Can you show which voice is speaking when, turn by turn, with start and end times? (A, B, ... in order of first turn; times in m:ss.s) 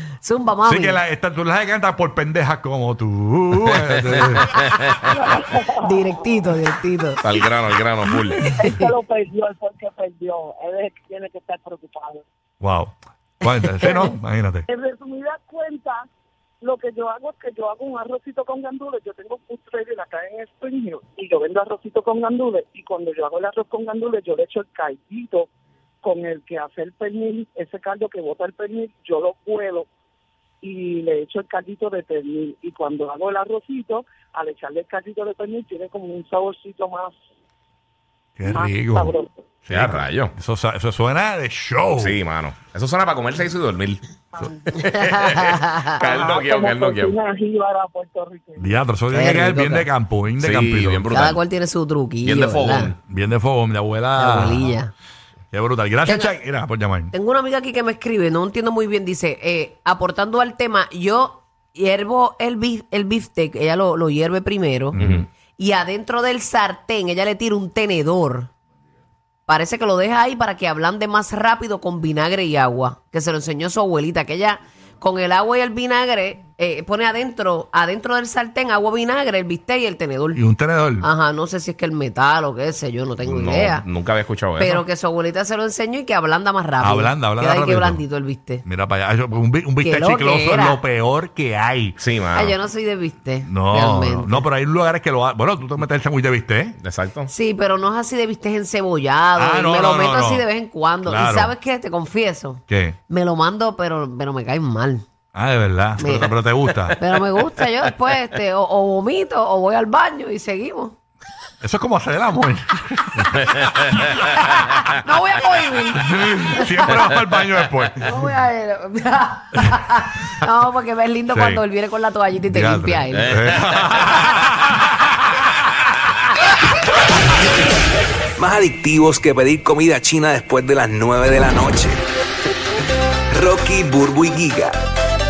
0:00.2-0:01.0 A
0:00.6-0:04.8 B
0:03.6-0:05.0 C
0:05.1-0:06.4 D
0:05.8-0:07.2 A
0:07.2-0:08.5 C
0:08.4-0:12.2 D
0:08.4-0:08.8 A
0:12.6-0:14.6 B
0:14.7-0:16.0 D
0:16.6-0:25.5 D
0:26.0-0:29.9 D
0:30.6-0:37.1 D
0:38.4-0:39.1 B
0:38.4-0:39.3 D
0:39.6-0:42.2 B
0:39.7-0:40.3 C
0:42.0-0:44.0 C
0:44.3-0:44.6 D
0:44.8-0:45.9 A
0:44.8-0:47.2 C
0:46.0-0:48.7 D
0:48.6-0:51.2 B
0:49.1-0:49.9 A
0:50.4-0:51.4 C
0:51.1-0:52.9 A
0:52.2-0:53.0 C
0:53.1-0:54.7 B
0:54.1-0:54.9 A
0:55.5-0:57.1 B
0:56.0-0:56.3 A
0:57.1-1:05.0 A
1:04.9-1:05.3 B
1:05.0-1:05.2 C
1:05.6-1:08.5 A
1:09.5-1:20.4 A
1:20.3-1:21.1 B
1:21.0-1:23.8 A
1:23.2-1:24.8 C
1:24.6-1:28.6 A
1:26.8-1:28.0 B
1:28.6-1:32.0 B
1:29.8-1:30.8 A
1:32.0-1:32.6 C
1:32.3-1:34.5 A
1:33.4-1:36.8 B
1:36.8-1:37.3 C
1:37.3-1:45.0 A
1:39.4-1:40.5 B
1:41.0-1:41.5 B
1:42.7-1:43.0 B
1:45.3-1:47.0 B
1:46.0-1:51.0 A
1:51.6-1:55.0 B
1:53.4-1:53.9 C
1:54.9-1:56.9 A
1:56.0-1:58.2 B
1:58.0-2:03.5 A
2:01.3-2:01.6 B
2:02.5-2:04.9 B
2:03.1-2:04.2 C
2:08.4-2:12.0 E
2:13.3-2:14.7 E